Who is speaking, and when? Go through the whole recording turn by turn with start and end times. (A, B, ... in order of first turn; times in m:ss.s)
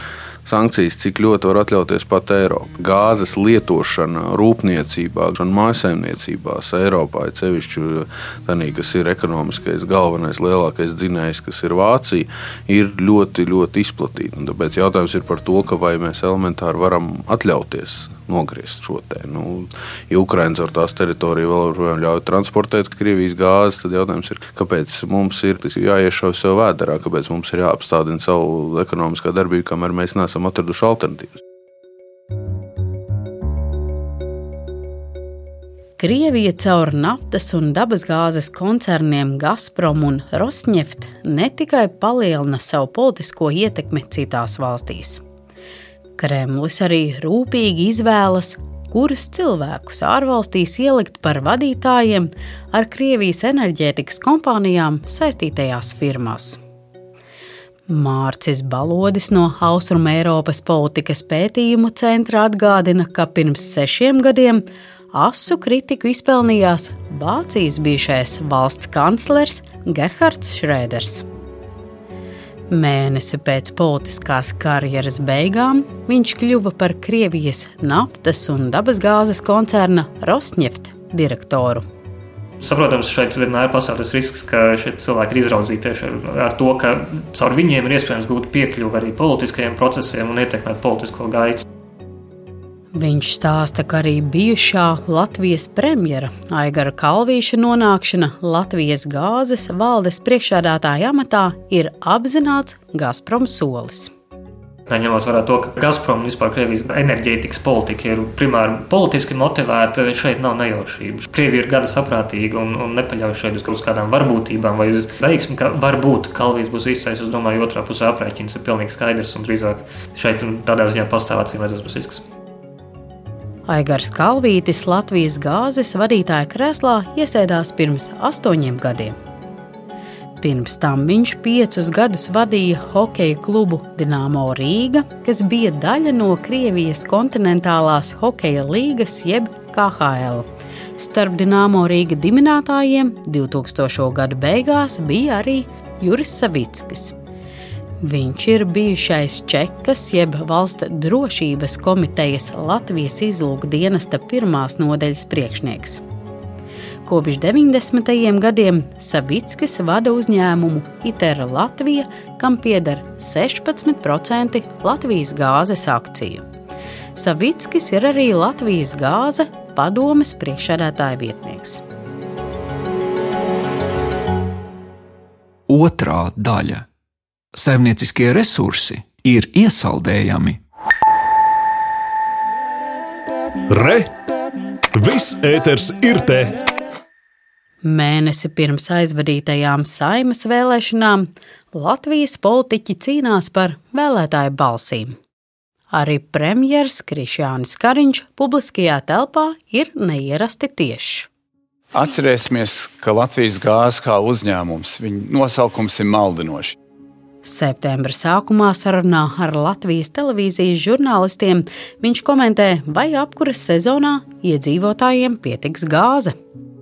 0:00.4-0:31.3 A
0:36.0-0:45.2 B
0:46.2-0:56.6 B
0:57.9-1:11.2 B
1:12.7-1:21.8 B
1:22.6-1:31.6 C
1:32.9-1:44.1 B
1:44.9-2:02.2 C
2:03.7-2:09.2 B
2:10.4-2:27.1 B
2:28.0-2:36.0 B
2:37.0-2:46.4 B
2:47.1-2:51.8 B
2:55.7-2:56.8 D
2:57.5-3:00.6 D
3:03.7-3:04.2 E
3:04.9-3:06.6 E
3:07.8-3:15.2 B
3:15.9-3:21.3 B
3:21.9-3:26.7 F
3:27.4-3:36.3 B